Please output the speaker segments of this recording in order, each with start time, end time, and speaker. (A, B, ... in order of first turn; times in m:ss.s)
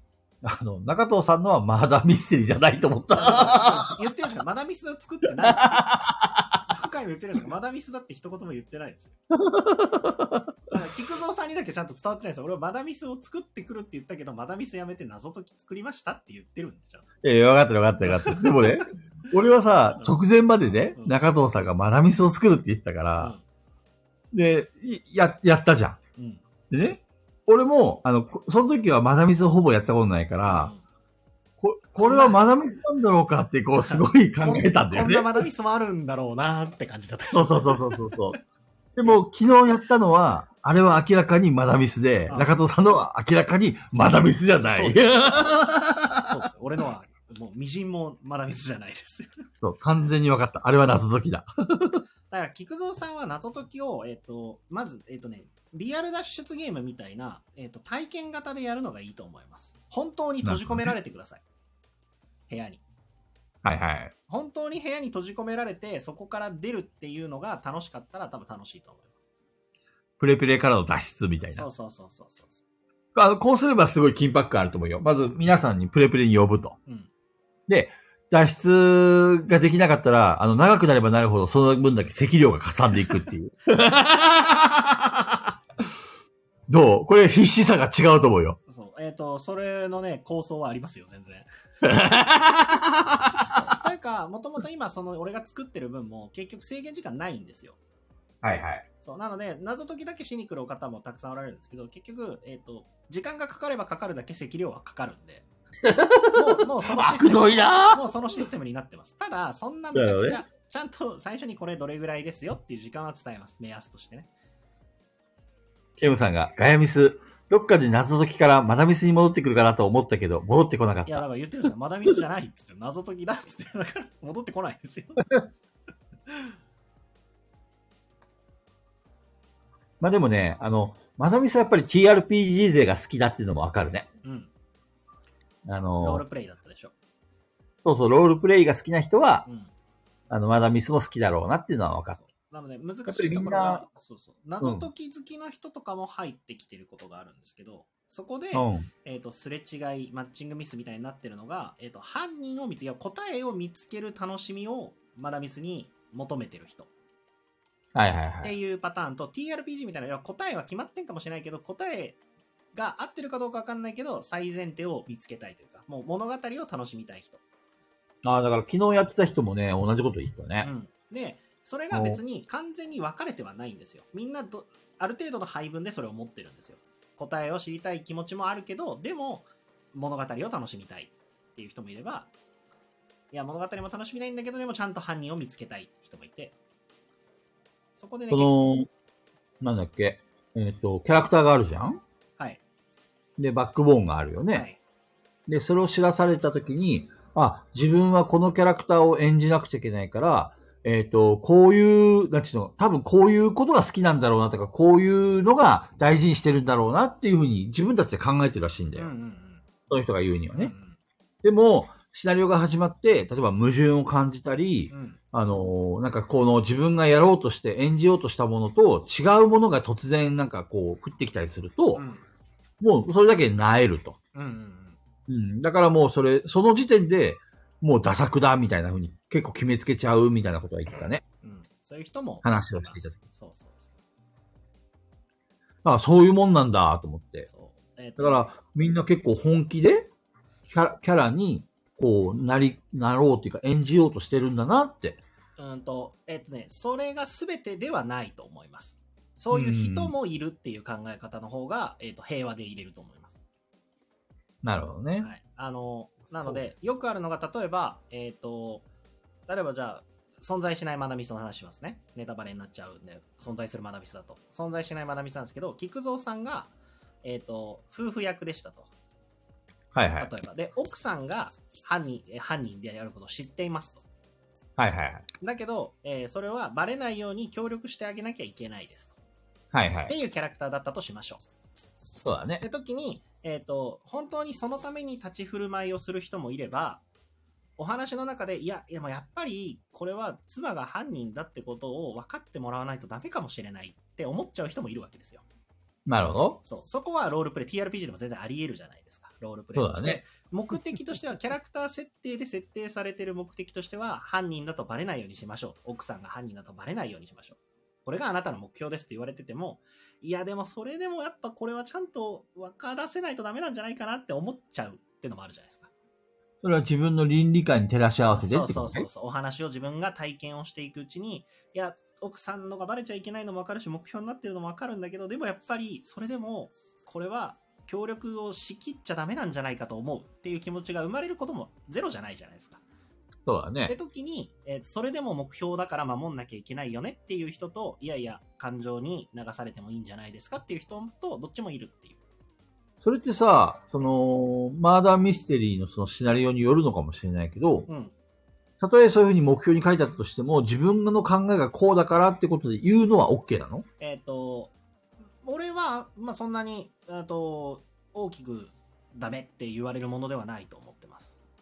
0:00.4-0:04.0 A
0:03.1-0:06.0 B
0:05.4-0:06.6 A
0:06.7-0:09.2 B
0:09.3-0:10.5 A
0:10.7-0:17.1 B
0:17.2-0:23.4 A
0:18.1-0:18.9 B
0:24.3-0:26.0 A
0:26.2-0:26.4 B
0:26.7-0:30.7 A
0:30.5-0:30.8 B
0:31.6-0:35.4 A
0:32.0-0:32.5 B
0:33.8-0:38.4 B
0:37.3-0:38.4 A
0:39.0-0:46.3 A
0:42.3-0:42.5 B
0:44.7-0:45.2 B
0:46.2-0:49.3 B
0:49.6-0:52.0 A
0:52.3-1:01.4 B
1:00.4-1:00.9 A
1:02.5-1:02.8 B
1:03.6-1:04.1 A
1:04.3-1:09.2 B
1:10.2-1:11.7 A
1:11.5-1:12.6 B
1:13.2-1:16.8 A
1:17.7-1:25.4 A
1:26.7-1:28.6 A
1:28.7-1:31.5 B
1:31.8-1:33.7 A
1:33.5-1:37.8 B
1:38.4-1:38.9 A
1:39.0-1:45.5 B
1:45.8-1:48.0 A
1:46.3-1:54.3 B
1:49.9-1:50.4 A
1:56.0-2:01.2 A
2:01.1-2:05.4 B
2:06.3-2:06.5 B
2:10.0-2:14.1 A
2:14.2-2:14.5 B
2:15.7-2:16.2 A
2:16.0-2:16.9 B
2:17.8-2:19.5 A
2:19.5-2:19.7 B
2:20.3-2:22.2 A
2:22.1-2:36.9 B
2:23.1-2:23.8 A
2:24.6-2:24.9 A
2:28.5-2:28.9 A
2:38.0-2:38.6 A
2:38.4-2:42.2 B
2:42.7-2:47.4 B
2:48.2-2:50.7 A
2:50.6-3:02.3 B
2:51.9-2:52.2 A
3:03.3-3:06.6 B
3:08.0-3:08.5 B
3:08.3-3:08.9 A
3:09.6-3:12.0 A
3:13.4-3:14.7 A
3:14.5-3:14.8 B
3:15.5-3:29.1 A
3:29.0-3:29.7 B
3:29.9-3:30.8 A
3:30.5-3:31.0 B
3:31.4-3:42.0 A
3:34.9-3:35.2 B
3:42.0-3:42.2 B
3:42.8-3:44.2 A
3:44.3-3:45.0 B
3:45.3-3:51.2 A
3:51.4-3:53.9 B
3:52.4-3:53.2 A
3:55.8-3:57.5 A
3:57.5-3:58.5 B
3:58.2-4:00.1 A
4:00.7-4:05.2 A
4:05.6-4:13.4 B
4:09.5-4:10.1 A
4:14.6-4:15.3 A
4:15.2-4:18.9 B
4:19.5-4:28.9 B
4:29.9-4:30.3 A
4:30.2-4:34.0 B
4:34.8-4:35.3 A
4:35.4-4:39.2 B
4:39.7-4:40.1 A
4:40.1-4:41.4 B
4:42.2-4:42.7 A
4:42.6-4:47.0 B
4:47.8-4:55.4 B
4:56.1-4:56.6 A
4:56.6-5:15.9 B
4:59.8-5:00.2 A
5:16.6-5:19.1 A
5:18.3-5:32.8 B
5:33.5-5:34.0 A
5:33.9-5:42.2 B
5:43.0-5:47.9 A
5:47.9-5:48.1 B
5:48.8-5:53.9 A
5:54.0-5:54.7 B
5:55.4-6:01.4 B